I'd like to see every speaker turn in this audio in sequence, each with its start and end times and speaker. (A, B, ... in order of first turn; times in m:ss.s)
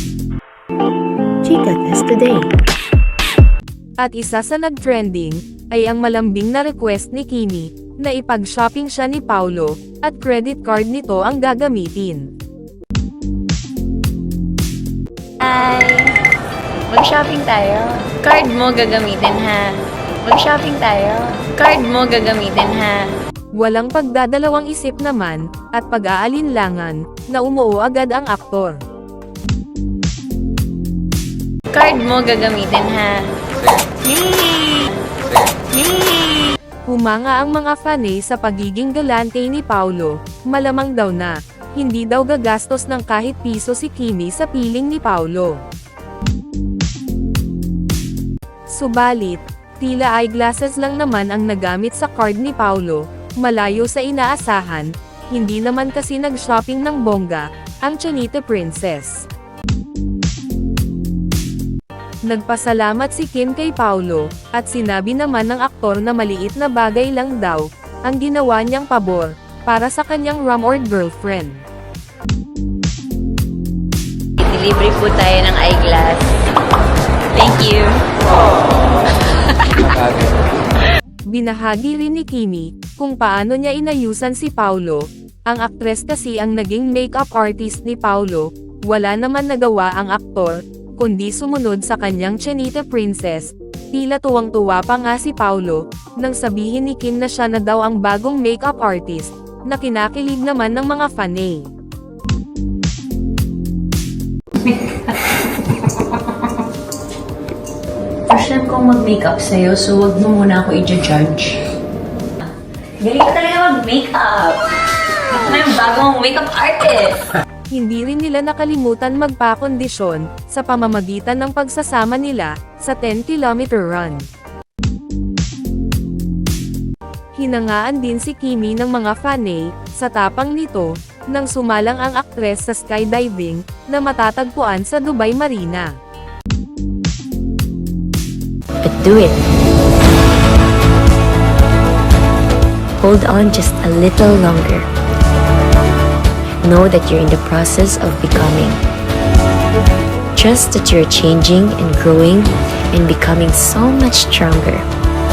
0:01.4-0:02.5 A
0:04.0-0:12.3 B
0:15.4-0:16.2 C
0:16.9-0:23.1 C
0:23.6-0:28.8 B
0:31.7-0:35.0 C
0:35.6-0:36.6 C
0:36.9-0:45.6 B
0:48.7-0:59.2 B
1:02.3-1:11.6 B
1:14.4-1:16.3 C
1:17.3-1:18.0 C
1:21.3-1:41.6 B
1:48.3-1:51.6 C
1:53.0-1:54.6 C
1:55.3-1:57.2 C
1:57.7-2:04.2 B
2:07.4-2:15.9 B
2:18.8-2:19.5 A
2:23.0-2:24.9 A
2:26.6-2:28.8 A
2:30.4-2:34.8 A